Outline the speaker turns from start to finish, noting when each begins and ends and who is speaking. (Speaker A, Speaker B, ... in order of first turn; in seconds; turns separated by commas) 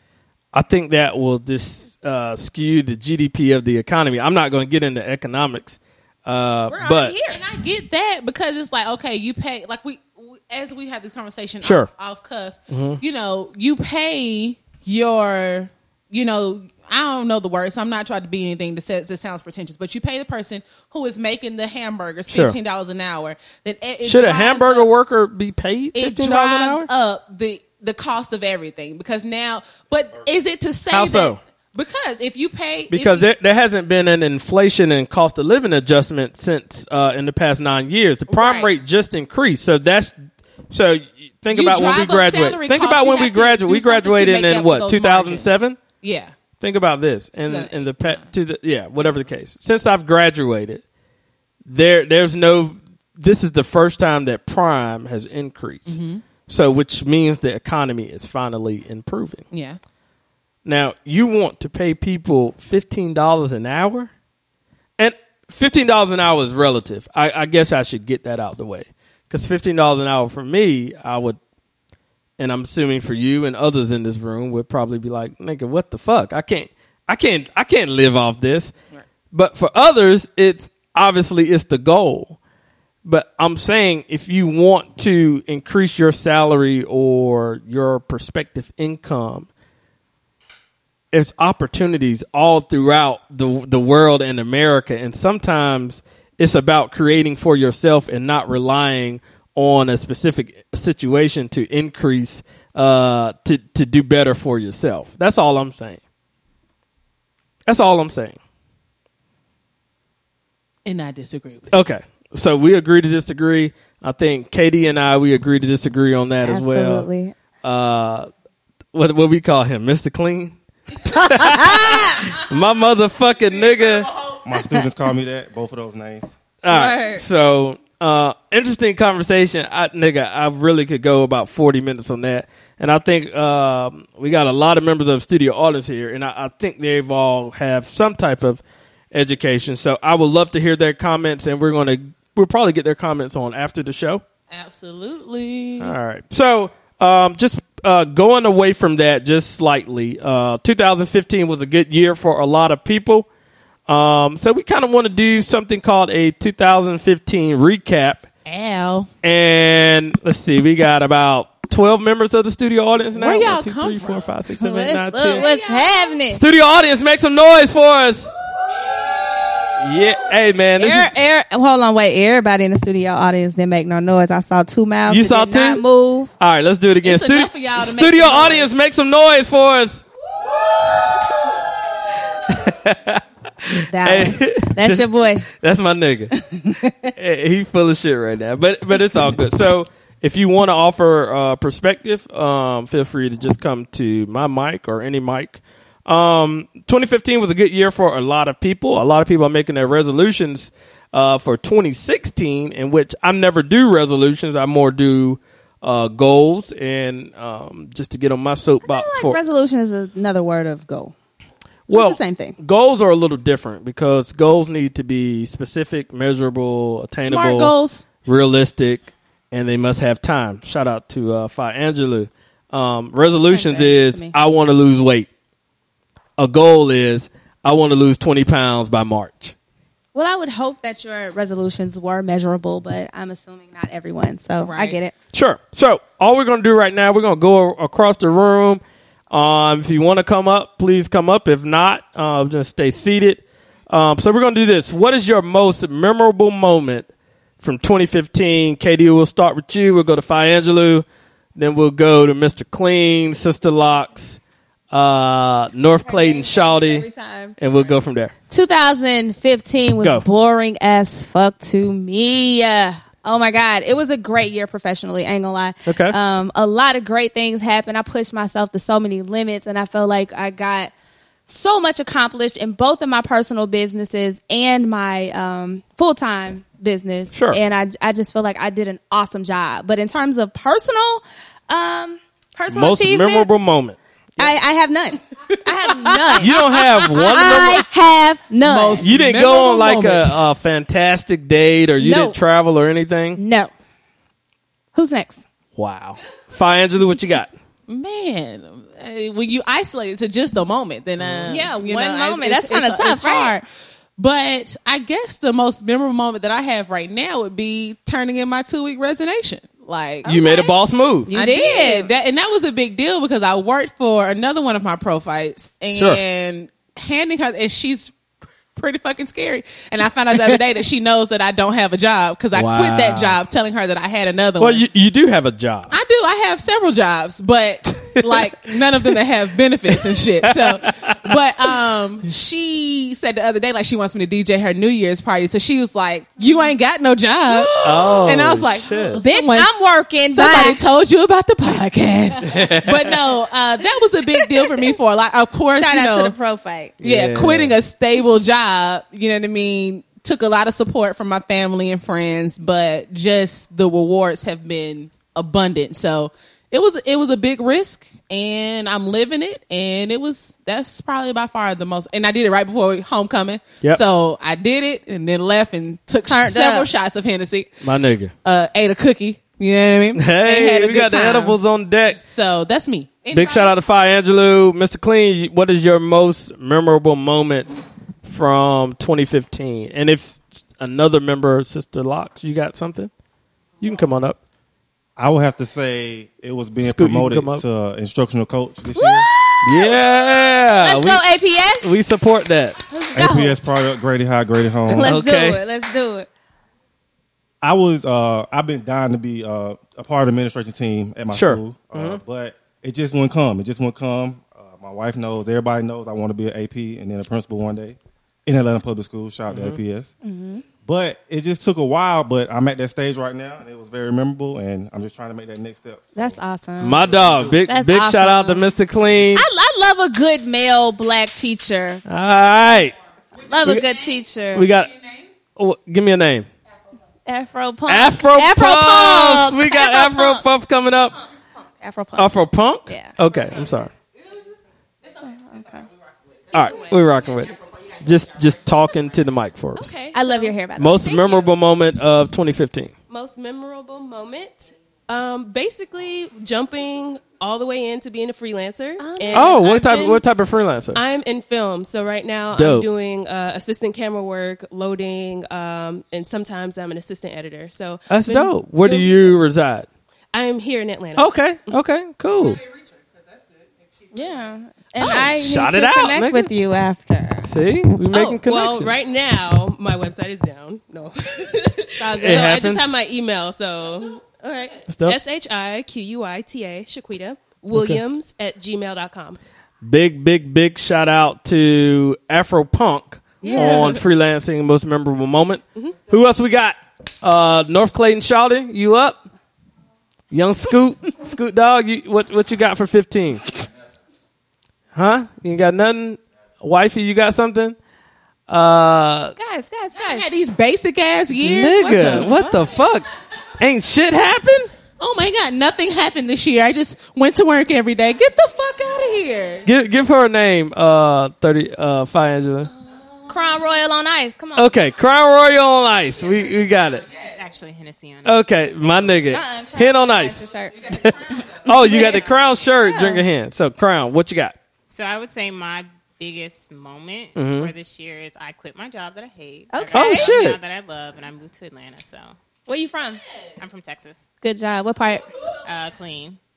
Speaker A: 0.5-7.1, Speaker B: 6.7-7.4, Speaker C: 7.3-24.9, Speaker A: 11.6-11.9, Speaker A: 12.7-13.0, Speaker A: 22.3-22.6, Speaker A: 24.0-26.9, Speaker C: 25.9-33.3, Speaker A: 30.9-31.4, Speaker A: 32.9-40.2, Speaker C: 38.3-38.7, Speaker A: 40.7-45.8, Speaker C: 41.5-46.3, Speaker A: 46.6-50.8, Speaker C: 47.4-48.3, Speaker A: 51.7-59.5, Speaker C: 55.9-56.2, Speaker C: 59.5-59.8, Speaker A: 60.6-64.1, Speaker A: 65.0-71.4, Speaker A: 72.4-78.7, Speaker A: 79.3-82.4, Speaker A: 83.0-89.5, Speaker A: 91.1-106.0, Speaker A: 107.7-108.4, Speaker C: 110.9-111.7, Speaker A: 111.7-117.1, Speaker B: 116.4-117.3, Speaker A: 117.6-118.3, Speaker A: 118.9-124.1, Speaker B: 121.8-122.2, Speaker C: 123.5-124.5, Speaker D: 124.5-126.3, Speaker A: 126.6-144.2, Speaker B: 126.7-127.2, Speaker C: 144.5-145.9, Speaker A: 145.8-153.3, Speaker A: 153.9-158.3, Speaker C: 158.5-159.1, Speaker A: 159.2-165.5, Speaker C: 163.2-164.3, Speaker B: 164.6-166.4, Speaker C: 165.2-166.1, Speaker A: 166.3-168.3, Speaker A: 169.8-171.1, Speaker B: 170.8-176.3, Speaker A: 175.1-175.8, Speaker A: 176.4-180.0, Speaker C: 177.0-178.7, Speaker A: 182.5-186.3, Speaker B: 183.9-185.5, Speaker B: 186.3-186.9, Speaker A: 187.1-209.4, Speaker B: 208.8-211.1, Speaker B: 211.9-212.6, Speaker A: 211.9-225.3, Speaker C: 217.2-218.1, Speaker B: 223.4-224.3, Speaker A: 226.4-229.6, Speaker B: 230.1-235.1, Speaker C: 234.6-235.0, Speaker A: 235.3-247.1, Speaker A: 247.6-251.1, Speaker A: 251.6-254.4, Speaker A: 254.9-257.0, Speaker B: 256.1-257.6, Speaker A: 257.6-258.3, Speaker B: 258.5-270.9, Speaker A: 265.9-266.2, Speaker B: 271.5-283.5, Speaker A: 277.3-277.6, Speaker A: 282.7-284.5, Speaker B: 284.4-289.1, Speaker C: 285.9-286.2, Speaker A: 286.4-287.8, Speaker C: 288.6-290.4, Speaker A: 289.0-293.4, Speaker B: 292.0-292.4, Speaker B: 293.4-293.7, Speaker B: 294.9-295.4, Speaker A: 295.8-297.5, Speaker C: 297.9-303.6, Speaker A: 301.2-301.6, Speaker B: 301.5-303.6, Speaker C: 304.2-310.3, Speaker B: 310.3-310.7, Speaker A: 310.3-311.3, Speaker B: 311.3-312.1, Speaker C: 311.3-318.1, Speaker A: 315.9-316.2, Speaker C: 318.8-324.8, Speaker A: 322.5-323.4, Speaker A: 324.6-325.9, Speaker C: 325.9-339.7, Speaker A: 330.4-331.2, Speaker A: 337.8-339.2, Speaker B: 339.2-340.8, Speaker C: 340.3-346.4, Speaker A: 342.5-342.9, Speaker B: 344.4-344.9, Speaker B: 345.8-346.9, Speaker A: 347.0-347.8, Speaker C: 347.0-367.7, Speaker B: 366.3-366.9, Speaker A: 367.8-368.3, Speaker C: 368.4-371.6, Speaker A: 370.1-372.2, Speaker C: 372.2-373.8, Speaker A: 373.3-377.7, Speaker A: 378.2-383.1, Speaker A: 383.8-384.4, Speaker D: 385.2-389.3, Speaker A: 386.8-387.6, Speaker B: 388.9-391.9, Speaker A: 389.6-391.2, Speaker A: 391.8-392.8, Speaker B: 392.9-393.6, Speaker D: 393.1-395.2, Speaker B: 394.9-396.3, Speaker A: 395.0-395.6, Speaker D: 397.6-410.1, Speaker A: 401.3-402.2, Speaker A: 409.5-409.8, Speaker B: 410.2-410.6, Speaker D: 410.9-416.4, Speaker B: 416.1-418.7, Speaker A: 416.8-419.4, Speaker B: 419.4-422.0, Speaker A: 422.1-423.0, Speaker B: 423.4-424.7, Speaker A: 424.5-424.9, Speaker A: 425.6-426.5, Speaker B: 427.3-430.4, Speaker A: 427.9-431.1, Speaker B: 431.8-432.4, Speaker A: 432.2-433.9, Speaker B: 432.9-433.1, Speaker C: 435.0-435.3, Speaker B: 435.2-435.9, Speaker A: 436.5-439.9, Speaker C: 437.4-437.8, Speaker E: 439.8-440.6, Speaker B: 440.1-441.5, Speaker A: 440.8-442.9, Speaker E: 443.1-450.2, Speaker B: 449.0-449.6, Speaker A: 449.3-451.0, Speaker E: 450.9-459.4, Speaker A: 452.5-452.9, Speaker A: 458.1-459.9, Speaker E: 460.3-461.8, Speaker A: 461.2-462.6, Speaker B: 464.1-467.5, Speaker A: 465.0-466.5, Speaker A: 467.5-469.1, Speaker E: 468.1-479.4, Speaker A: 472.1-472.9, Speaker A: 474.9-475.2, Speaker A: 477.7-478.0, Speaker A: 479.8-489.2, Speaker E: 483.4-484.0, Speaker B: 483.4-484.0, Speaker A: 490.3-493.5, Speaker A: 494.9-497.8, Speaker A: 498.5-499.4, Speaker B: 499.4-500.3, Speaker C: 499.9-502.5, Speaker A: 501.4-503.1, Speaker B: 502.1-502.4, Speaker A: 503.6-504.7, Speaker C: 505.0-509.7, Speaker A: 509.6-512.7, Speaker B: 513.3-514.8, Speaker A: 514.6-517.0, Speaker F: 517.3-519.0, Speaker A: 518.2-524.6, Speaker B: 519.3-522.2, Speaker B: 522.8-523.2, Speaker F: 524.9-532.4, Speaker A: 527.4-527.7, Speaker B: 529.7-530.4, Speaker A: 529.9-530.6, Speaker B: 532.7-533.2, Speaker F: 533.6-534.2, Speaker B: 534.4-535.3, Speaker F: 535.6-536.4